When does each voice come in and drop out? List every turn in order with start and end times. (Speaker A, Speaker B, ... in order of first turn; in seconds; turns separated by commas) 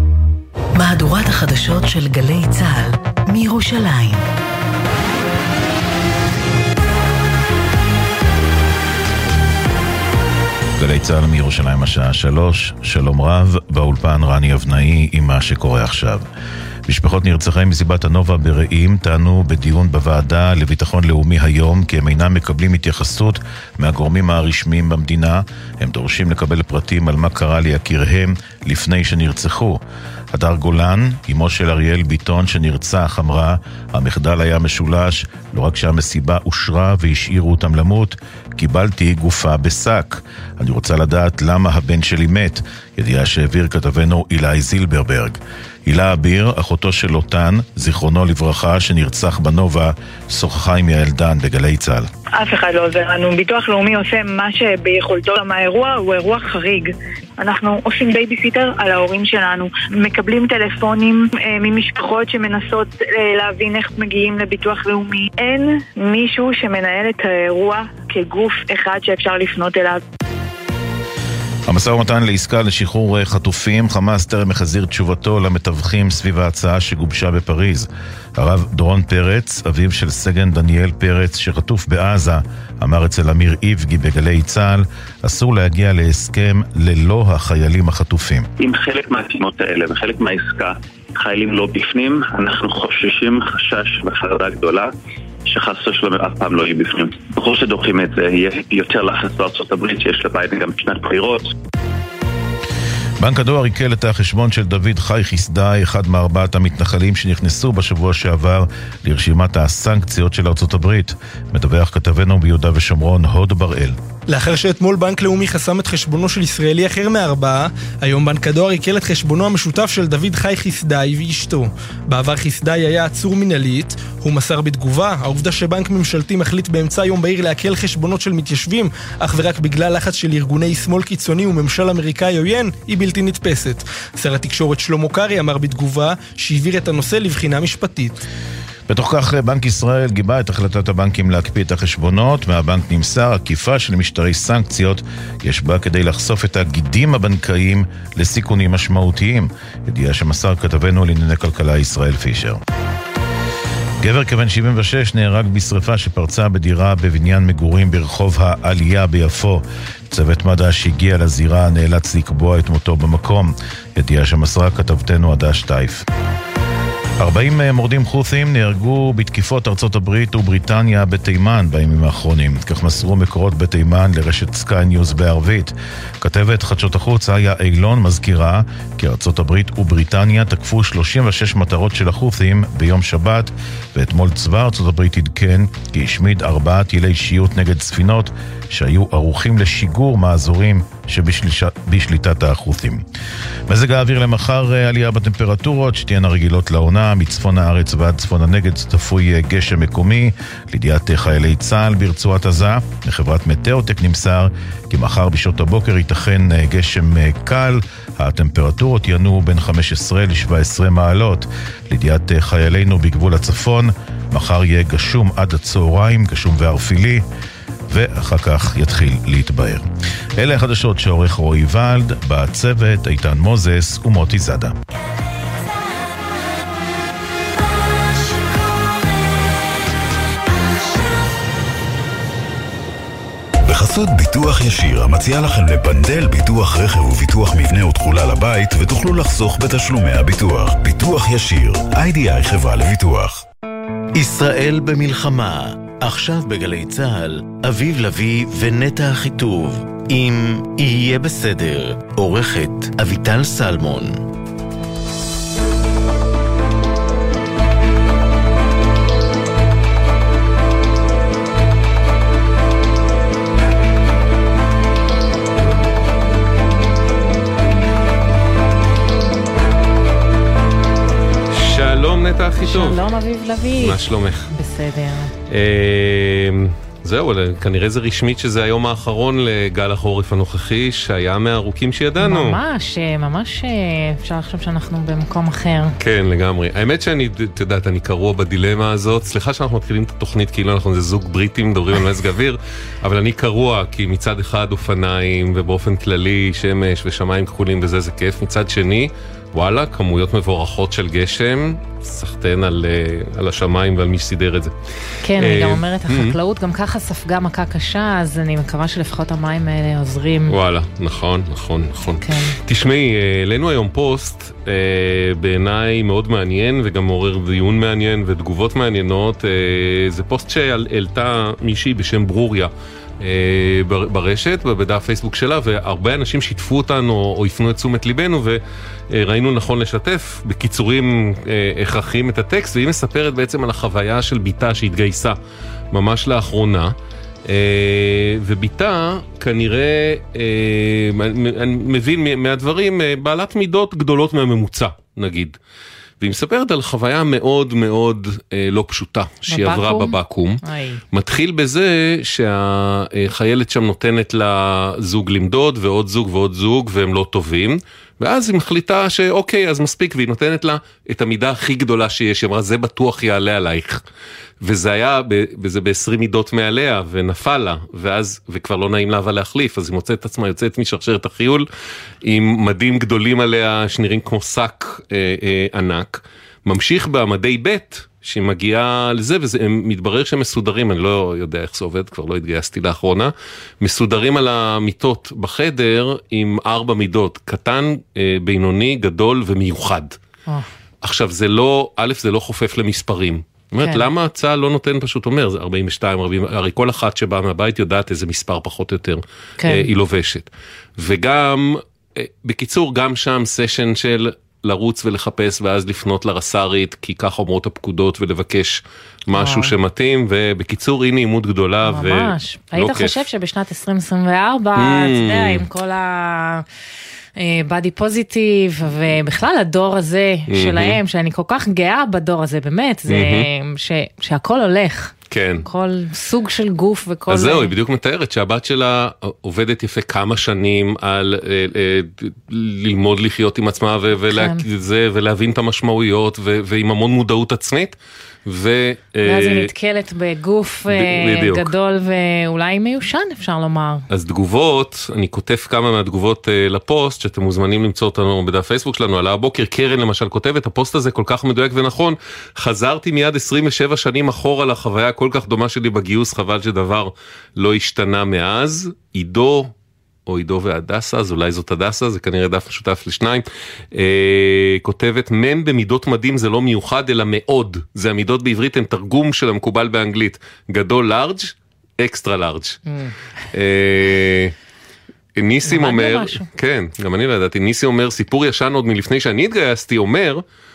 Speaker A: 0.8-4.2, Speaker B: 10.8-16.3, Speaker B: 16.9-29.8, Speaker B: 30.3-52.1, Speaker C: 52.4-70.0, Speaker B: 71.7-88.5, Speaker D: 88.6-94.9, Speaker D: 95.5-101.5, Speaker B: 103.2-114.0, Speaker E: 114.3-138.2, Speaker B: 138.9-152.6, Speaker B: 154.0-166.1, Speaker B: 167.2-193.0, Speaker B: 193.7-217.2, Speaker B: 217.9-224.8, Speaker F: 233.7-243.4, Speaker G: 244.2-254.2, Speaker H: 271.5-273.0, Speaker I: 272.6-275.3, Speaker H: 273.8-274.5, Speaker H: 275.5-282.6, Speaker I: 282.2-286.0, Speaker H: 286.0-304.7, Speaker I: 305.2-310.6, Speaker H: 305.4-306.4, Speaker H: 310.5-328.6, Speaker I: 312.2-312.6, Speaker H: 329.1-335.4, Speaker H: 335.9-336.9, Speaker H: 337.5-345.6, Speaker H: 346.2-350.6, Speaker I: 349.5-351.0, Speaker H: 351.1-364.0, Speaker H: 364.6-371.6, Speaker H: 372.2-390.2, Speaker H: 391.0-413.1, Speaker I: 393.8-394.1, Speaker I: 399.6-399.9, Speaker I: 409.4-409.7, Speaker I: 411.9-416.6, Speaker H: 414.8-415.6, Speaker I: 417.4-427.7, Speaker H: 420.5-421.0, Speaker H: 423.1-423.5, Speaker H: 425.3-425.6, Speaker H: 427.3-439.7, Speaker I: 434.2-434.6, Speaker I: 439.2-444.1, Speaker H: 440.9-441.7, Speaker H: 444.1-459.7, Speaker H: 460.3-472.8, Speaker I: 472.9-473.1, Speaker H: 473.5-474.5, Speaker H: 475.4-480.4, Speaker I: 475.7-476.5